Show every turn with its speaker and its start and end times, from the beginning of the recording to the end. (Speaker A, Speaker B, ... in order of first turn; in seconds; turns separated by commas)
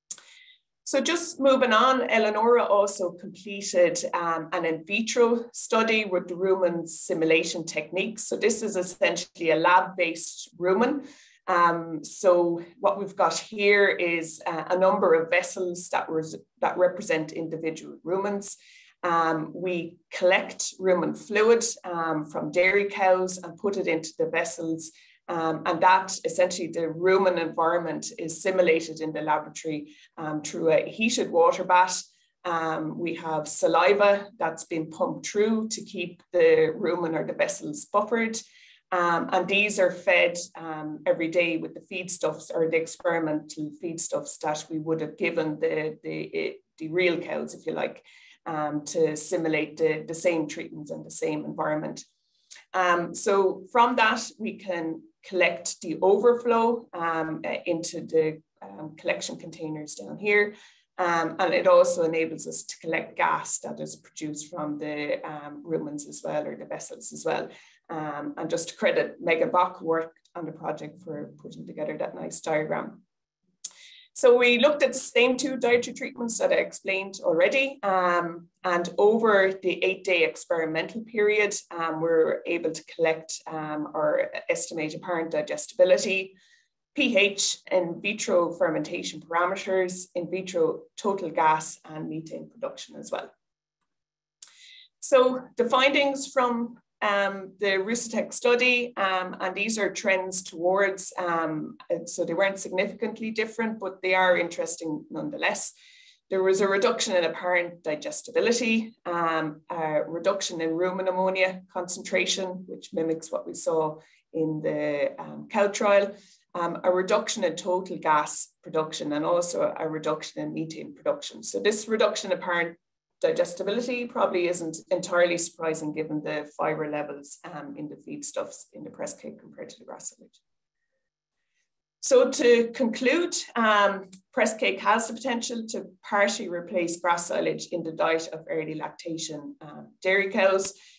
Speaker A: 0.8-52.0, Speaker A: 52.7-73.0, Speaker A: 74.2-86.4, Speaker A: 87.0-93.3, Speaker A: 95.0-105.7, Speaker A: 106.3-130.4, Speaker A: 132.0-140.7